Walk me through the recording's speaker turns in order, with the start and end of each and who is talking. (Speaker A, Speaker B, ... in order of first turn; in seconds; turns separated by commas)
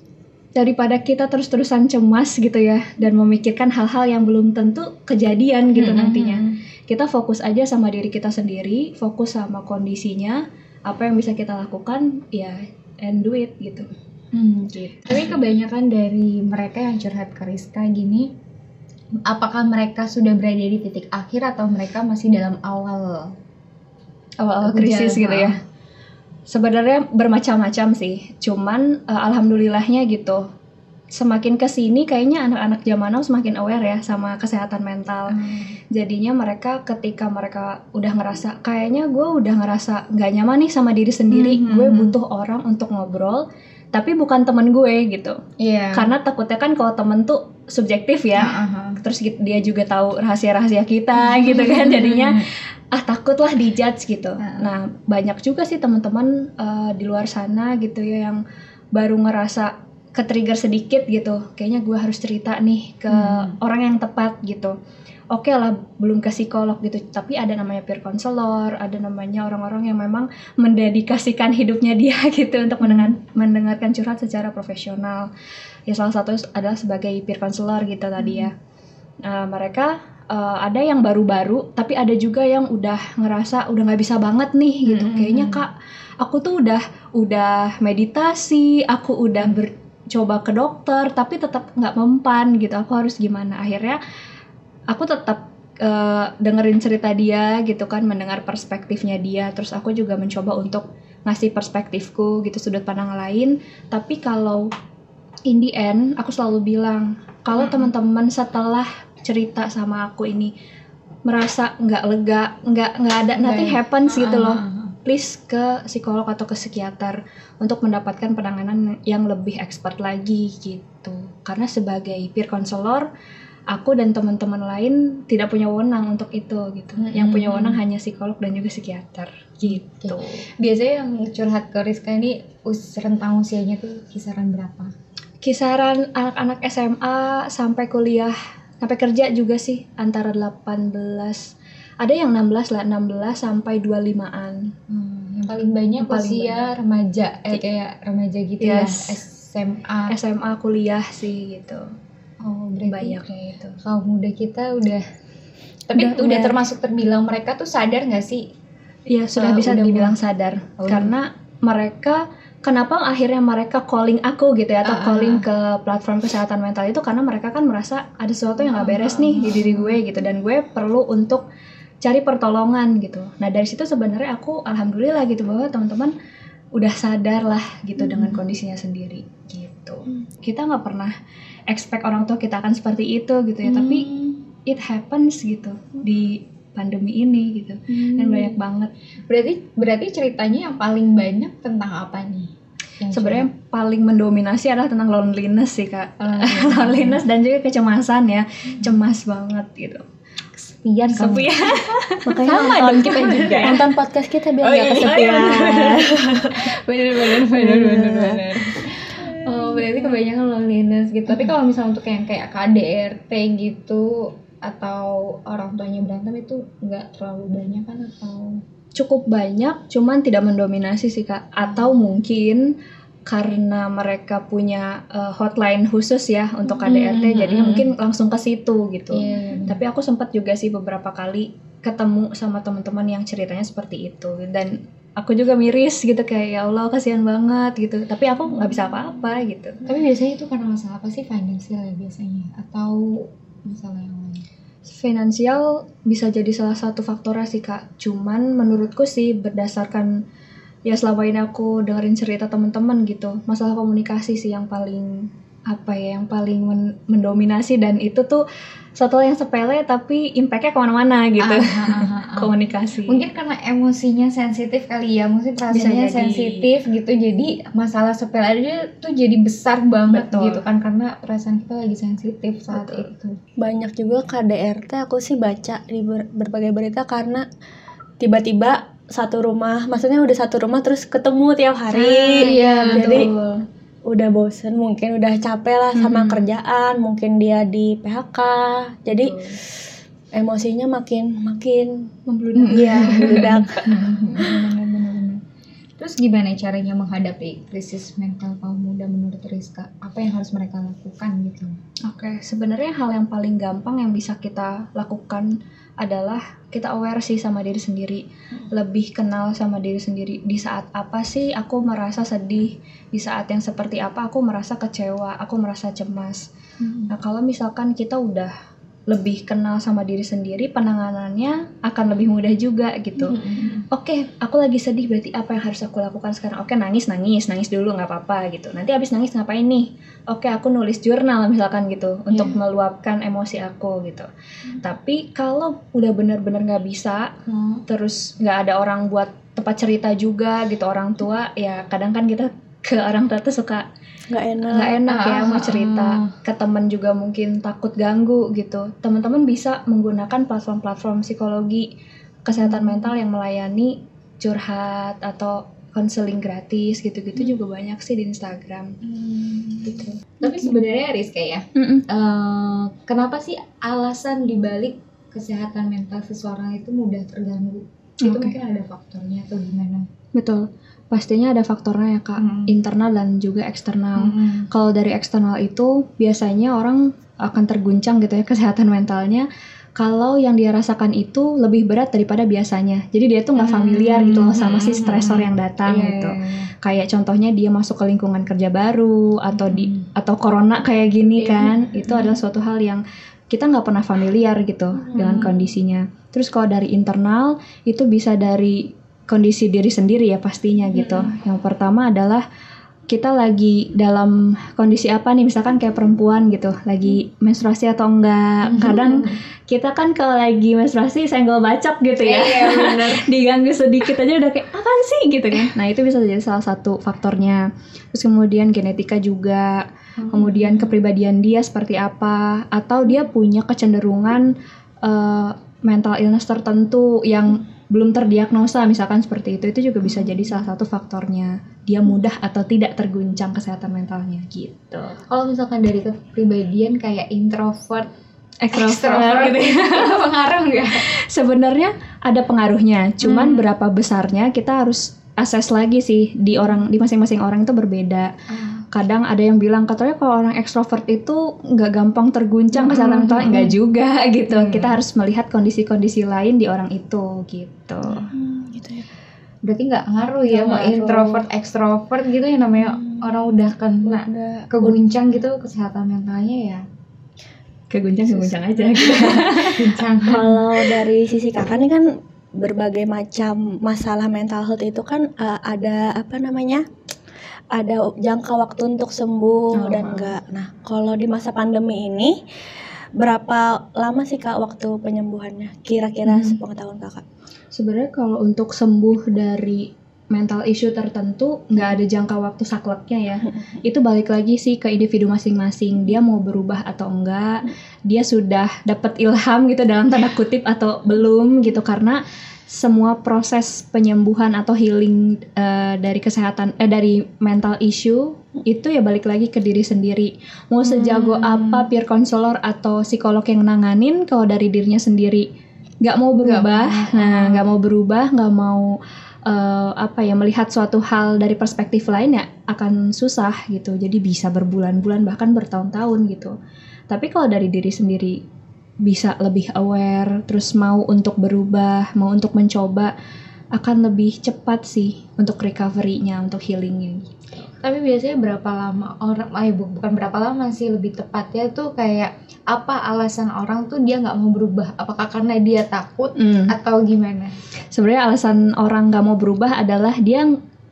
Speaker A: 0.6-13.9, Speaker B: 5.7-6.5, Speaker B: 14.3-18.3, Speaker A: 14.7-15.3, Speaker B: 19.2-23.4, Speaker A: 24.4-25.6, Speaker B: 24.6-25.6, Speaker A: 26.5-30.4, Speaker A: 31.1-35.4, Speaker B: 35.3-35.8, Speaker A: 35.9-45.4, Speaker B: 41.3-42.2, Speaker B: 45.6-46.1, Speaker A: 45.9-58.4, Speaker B: 48.4-49.0, Speaker B: 51.2-52.5, Speaker B: 54.4-54.7, Speaker A: 59.0-64.7, Speaker B: 63.1-63.6, Speaker A: 65.3-75.3, Speaker B: 72.8-73.1, Speaker A: 75.9-78.5, Speaker B: 78.2-78.5, Speaker A: 79.3-94.0, Speaker B: 84.8-85.6, Speaker A: 94.9-104.7, Speaker A: 105.5-110.5, Speaker B: 107.6-107.9, Speaker A: 111.3-123.1, Speaker B: 113.4-115.0, Speaker A: 123.7-130.3, Speaker B: 127.0-127.8, Speaker B: 129.6-134.9, Speaker A: 135.4-144.7, Speaker B: 144.9-150.1, Speaker A: 146.0-146.7, Speaker A: 148.6-149.2, Speaker A: 150.1-151.8, Speaker B: 152.4-153.2, Speaker A: 152.9-153.8, Speaker B: 153.8-155.0, Speaker B: 155.9-158.4, Speaker A: 155.9-156.6, Speaker A: 159.1-171.4, Speaker B: 159.4-160.2, Speaker B: 160.8-161.2, Speaker B: 164.8-165.5, Speaker B: 168.7-170.0, Speaker A: 172.0-176.1, Speaker A: 176.8-181.1, Speaker B: 178.0-178.4, Speaker A: 181.7-184.1, Speaker B: 183.7-184.4, Speaker A: 184.7-188.9, Speaker B: 187.9-188.6, Speaker B: 189.3-193.5, Speaker A: 193.1-200.0, Speaker B: 196.2-197.2, Speaker B: 200.6-201.5, Speaker A: 201.2-203.8, Speaker C: 202.2-206.6, Speaker B: 202.4-203.8, Speaker A: 204.7-206.2, Speaker B: 204.7-206.0, Speaker B: 206.6-218.6, Speaker C: 207.4-208.5, Speaker A: 219.0-222.7, Speaker A: 223.3-239.8, Speaker B: 226.7-227.9, Speaker B: 229.1-229.8, Speaker B: 239.8-244.4, Speaker A: 244.9-250.1, Speaker A: 250.9-258.4, Speaker A: 259.0-263.2, Speaker B: 261.4-262.5, Speaker B: 263.1-273.4, Speaker A: 265.7-266.7, Speaker A: 270.1-270.6, Speaker A: 272.7-273.1, Speaker C: 273.6-277.4, Speaker C: 278.2-283.3, Speaker A: 281.9-283.6, Speaker B: 282.4-283.3, Speaker C: 284.1-289.4, Speaker B: 286.0-286.4, Speaker A: 289.1-289.6, Speaker C: 290.3-292.1, Speaker A: 292.3-293.6, Speaker B: 292.6-295.4, Speaker C: 292.7-294.0, Speaker B: 296.0-301.8, Speaker A: 302.1-316.5, Speaker B: 316.8-317.1, Speaker A: 317.1-318.5, Speaker A: 319.1-323.4, Speaker B: 323.2-323.9, Speaker A: 323.9-334.3, Speaker B: 332.3-332.6, Speaker A: 334.8-337.3, Speaker B: 337.5-337.9, Speaker A: 337.9-343.9, Speaker C: 344.3-345.0, Speaker A: 344.7-351.9, Speaker B: 345.1-346.3, Speaker A: 352.5-359.0, Speaker B: 352.6-353.0, Speaker B: 359.0-370.1, Speaker A: 359.8-360.8, Speaker A: 361.8-362.0, Speaker A: 368.2-368.5, Speaker A: 370.4-379.5, Speaker B: 372.4-372.7, Speaker B: 374.2-374.7, Speaker A: 380.0-402.4, Speaker B: 383.6-386.7, Speaker B: 389.6-390.1, Speaker B: 391.4-392.4, Speaker B: 395.1-395.7, Speaker B: 400.9-401.3, Speaker A: 403.1-424.5, Speaker B: 408.7-409.4, Speaker B: 412.2-413.3, Speaker B: 420.2-420.9, Speaker A: 425.0-435.2, Speaker B: 435.3-438.1, Speaker A: 438.6-440.1, Speaker B: 438.7-441.0, Speaker A: 441.0-448.3, Speaker B: 443.2-443.7, Speaker B: 448.5-448.9, Speaker A: 448.9-458.3, Speaker B: 452.7-453.8, Speaker B: 454.5-455.0, Speaker C: 458.3-459.1, Speaker B: 459.6-466.8, Speaker C: 460.5-461.5, Speaker C: 463.0-463.2, Speaker C: 464.0-464.7, Speaker A: 467.9-469.9, Speaker B: 468.3-470.7, Speaker C: 470.2-476.8, Speaker C: 477.7-482.3, Speaker A: 479.8-480.3, Speaker C: 483.2-487.2, Speaker A: 486.3-486.6, Speaker A: 487.8-515.5, Speaker B: 510.9-511.9, Speaker A: 516.0-519.0, Speaker B: 516.4-517.6, Speaker A: 519.5-526.5, Speaker A: 527.1-528.4, Speaker A: 529.0-533.1, Speaker A: 533.8-537.7, Speaker B: 537.8-547.6, Speaker A: 546.4-546.7, Speaker A: 547.9-550.5